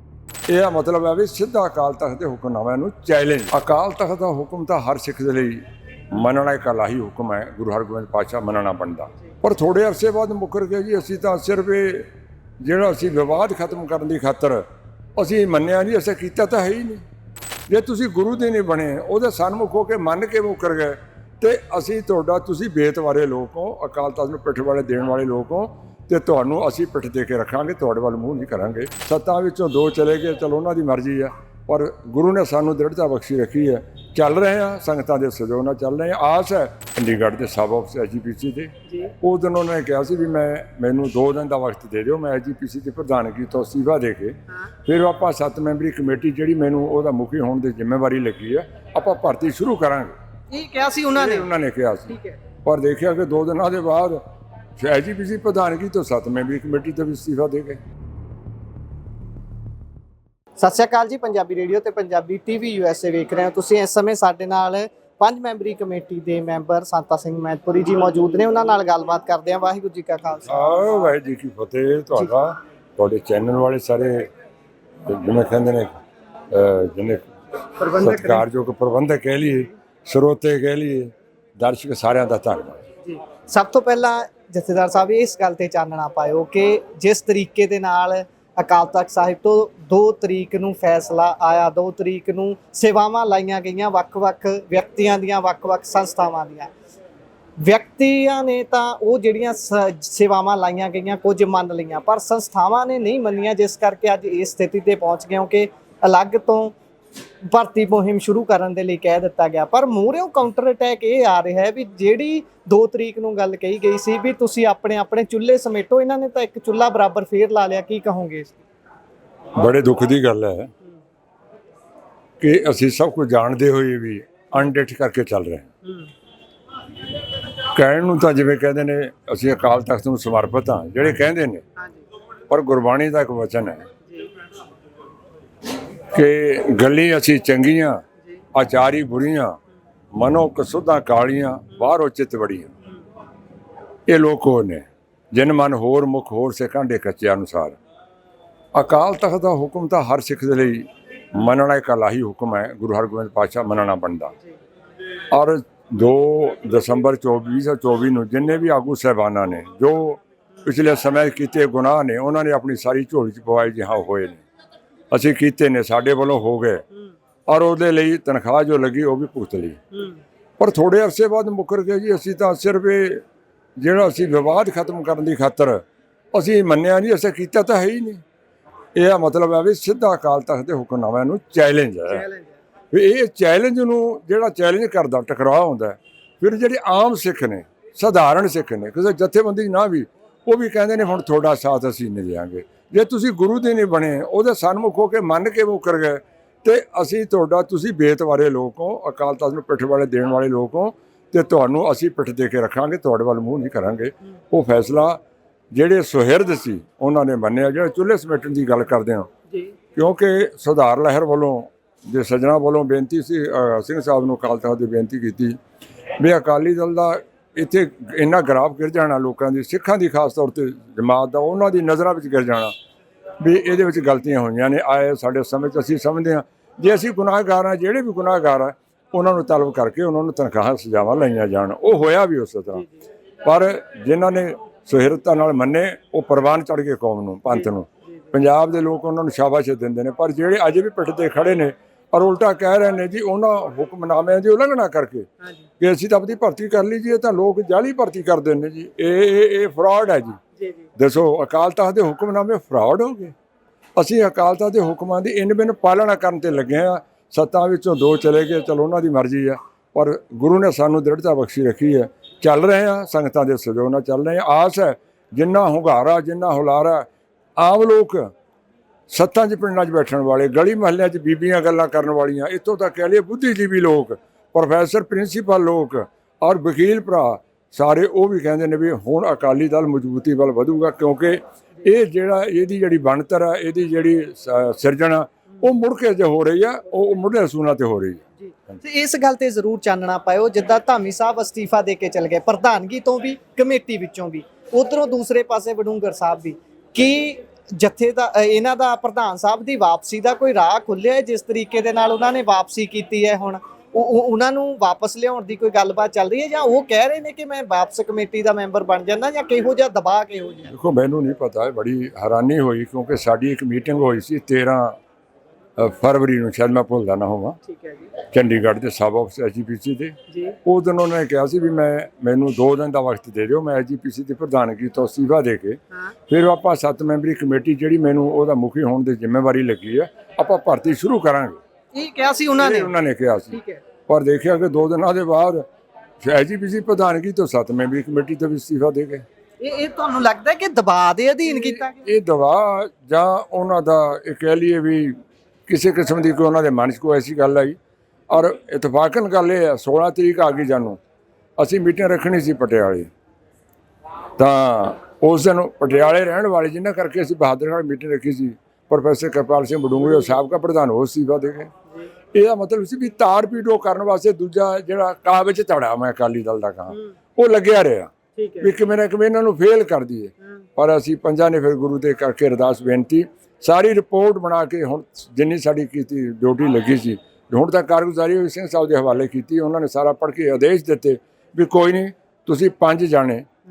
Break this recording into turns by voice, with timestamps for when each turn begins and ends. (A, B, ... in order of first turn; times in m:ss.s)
0:00.5-0:12.1 A
0:12.6-0:14.6 A
0:15.2-0:17.0 A
0:17.7-0:50.1 A
0:38.9-0:39.1 B
0:50.5-0:51.5 B
0:51.1-0:54.2 A
0:52.1-0:52.4 B
0:54.8-0:57.8 A
1:00.6-1:10.9 B
1:10.4-1:14.3 A
1:15.0-1:16.0 A
1:16.5-1:17.3 A
1:17.8-1:18.4 B
1:18.0-1:22.8 A
1:23.0-1:36.7 B
1:37.6-1:46.7 B
1:47.4-1:58.6 B
1:59.5-2:00.7 A
2:02.4-2:05.7 A
2:05.8-2:06.1 B
2:07.7-2:11.6 A
2:11.8-2:12.0 B
2:12.5-2:13.8 A
2:14.0-2:14.3 B
2:16.1-2:19.6 A
2:20.1-2:22.7 A
2:24.1-2:27.8 A
2:28.7-2:34.3 A
2:35.3-2:44.4 A
2:45.1-2:46.8 A
2:47.5-2:49.8 A
2:49.9-2:50.2 B
2:50.6-2:53.2 A
2:53.8-2:58.2 A
2:58.9-3:02.2 A
3:02.1-3:02.6 B
3:02.9-3:25.2 A
3:25.7-3:29.3 A
3:29.9-3:35.6 A
3:36.2-3:42.7 A
3:43.4-3:52.8 A
3:53.4-4:10.4 A
4:10.6-4:10.8 B
4:11.0-4:13.3 A
4:14.0-4:28.3 A
4:29.1-4:48.8 A
4:48.8-5:10.7 B
5:10.7-5:15.0 A
5:15.8-5:17.6 A
5:17.7-5:18.1 B
5:18.2-5:31.6 A
5:20.3-5:20.6 B
5:31.9-5:32.9 B
5:32.6-5:35.6 A
5:33.5-5:33.8 B
5:36.2-5:39.2 A
5:39.6-5:42.0 B
5:41.5-5:45.2 A
5:45.7-5:47.8 A
5:48.3-5:51.0 A
5:51.6-5:53.1 A
5:54.4-6:01.7 A
6:02.3-6:23.5 A
6:08.4-6:08.7 B